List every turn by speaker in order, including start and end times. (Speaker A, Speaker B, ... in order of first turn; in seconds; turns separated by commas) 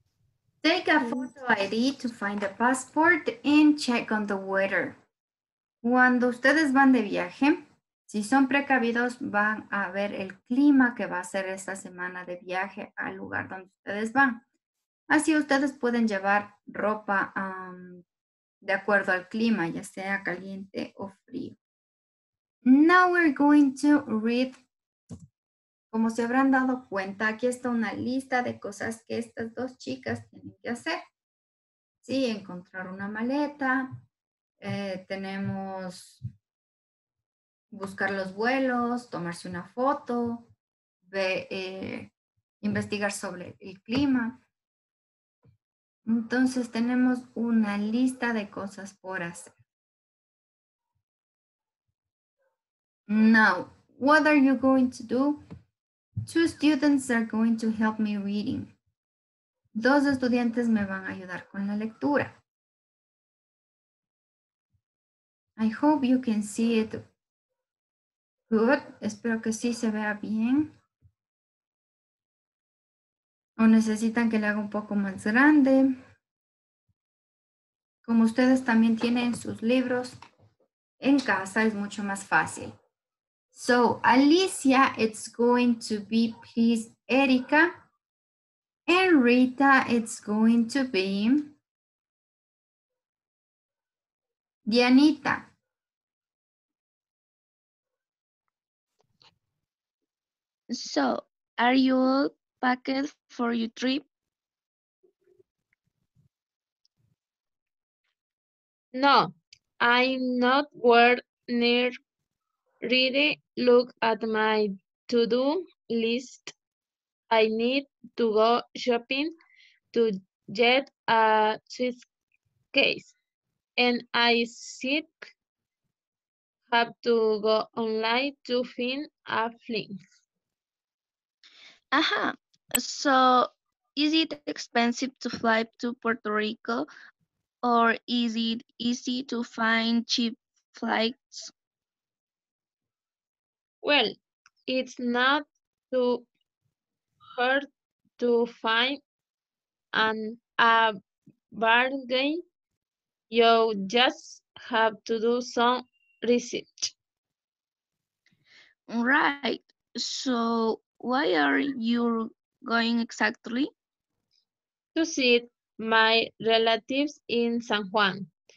Speaker A: 0.6-5.0, Speaker A: 5.8-14.4, Speaker A: 15.1-18.0, Speaker A: 18.6-21.6, Speaker A: 22.6-24.6, Speaker A: 25.9-31.0, Speaker A: 32.0-34.0, Speaker A: 34.6-36.2, Speaker A: 37.7-40.5, Speaker A: 41.0-42.1, Speaker A: 42.6-44.4, Speaker A: 46.1-49.6, Speaker A: 53.1-55.4, Speaker A: 56.3-58.7, Speaker A: 59.8-62.4, Speaker A: 65.6-67.0, Speaker A: 68.5-70.7, Speaker A: 73.6-76.0, Speaker A: 78.0-80.2, Speaker A: 81.0-82.8, Speaker A: 83.5-87.8, Speaker A: 88.9-91.6, Speaker A: 94.7-95.5, Speaker B: 100.7-104.1, Speaker C: 108.9-112.0, Speaker C: 112.8-116.5, Speaker C: 117.3-119.3, Speaker C: 119.9-122.1, Speaker C: 122.7-123.2, Speaker C: 123.8-125.3, Speaker C: 126.7-130.0, Speaker B: 131.9-136.9, Speaker B: 137.6-141.5, Speaker C: 143.8-144.2, Speaker C: 144.7-146.3, Speaker C: 147.4-147.7, Speaker C: 148.2-149.0, Speaker C: 149.9-151.0, Speaker C: 151.5-152.4, Speaker C: 153.3-156.9, Speaker B: 158.9-163.7, Speaker C: 164.9-168.3